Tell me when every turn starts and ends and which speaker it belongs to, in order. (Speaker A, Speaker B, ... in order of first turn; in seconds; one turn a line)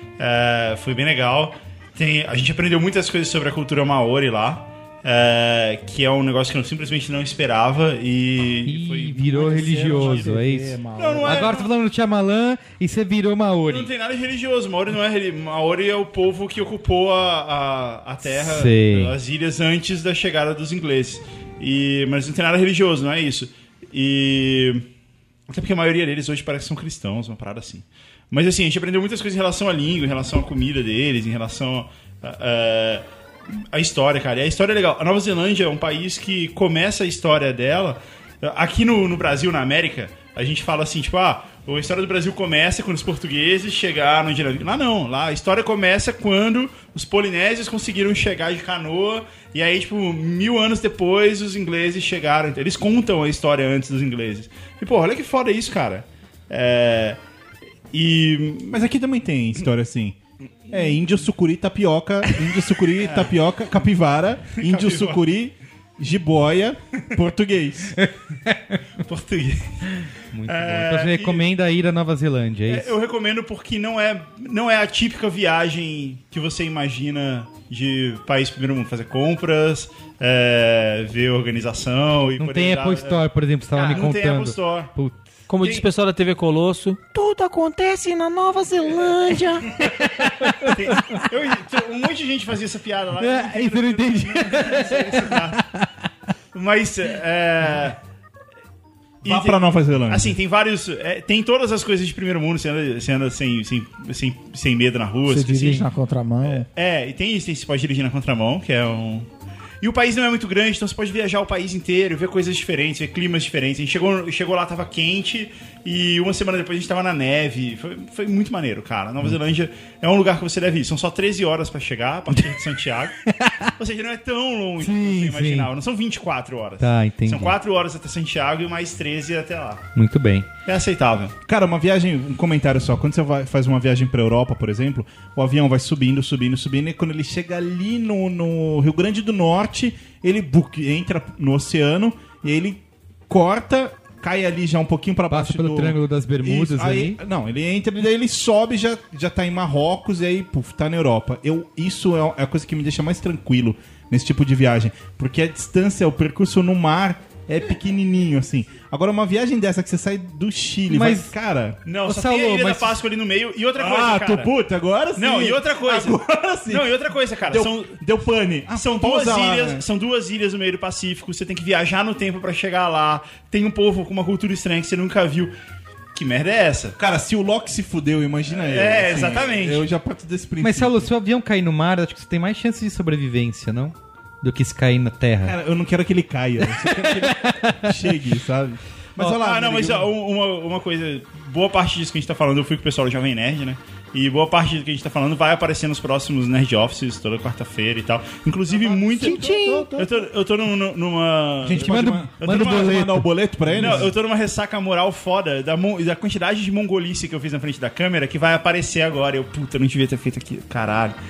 Speaker A: 0.2-9.3
Speaker B: 8.7-13.9
Speaker C: 9.3-11.5
Speaker A: 9.8-10.3
Speaker A: 11.0-11.7
Speaker A: 13.7-24.9
Speaker B: 18.2-19.1
Speaker A: 25.5-57.2
Speaker A: 57.9-58.8
Speaker D: 58.7-60.2
Speaker D: 60.7-68.0
Speaker A: 63.0-63.4
Speaker A: 64.6-65.2
Speaker B: 68.0-68.8
Speaker A: 69.0-69.9
Speaker B: 70.3-72.9
Speaker A: 70.5-71.5
Speaker A: 72.7-84.9
Speaker B: 82.4-85.3
Speaker E: 85.5-90.3
Speaker A: 85.6-85.9
Speaker B: 89.8-91.2
Speaker A: 90.6-95.6
Speaker B: 93.2-95.9
Speaker A: 96.5-98.0
Speaker A: 99.2-105.9
Speaker D: 99.2-100.4
Speaker C: 105.3-106.7
Speaker A: 106.4-109.3
Speaker A: 109.8-123.2
Speaker B: 123.2-123.7
Speaker A: 123.8-129.9
Speaker B: 124.8-125.7
Speaker B: 126.8-127.6
Speaker B: 129.9-130.5
Speaker A: 130.7-131.3
Speaker D: 131.5-161.8
Speaker B: 145.3-147.2
Speaker B: 160.9-161.3
Speaker A: 161.9-164.6
Speaker B: 162.0-163.0
Speaker D: 163.8-166.9
Speaker A: 165.2-168.0
Speaker D: 167.5-169.8
Speaker A: 168.7-175.5
Speaker A: 176.2-177.0
Speaker D: 177.0-181.1
Speaker A: 178.6-179.9
Speaker B: 180.6-185.6
Speaker D: 185.4-190.1
Speaker B: 186.6-188.2
Speaker A: 189.2-203.0
Speaker C: 198.7-200.3
Speaker B: 199.2-199.8
Speaker B: 201.7-204.1
Speaker D: 201.7-204.1
Speaker A: 203.7-211.2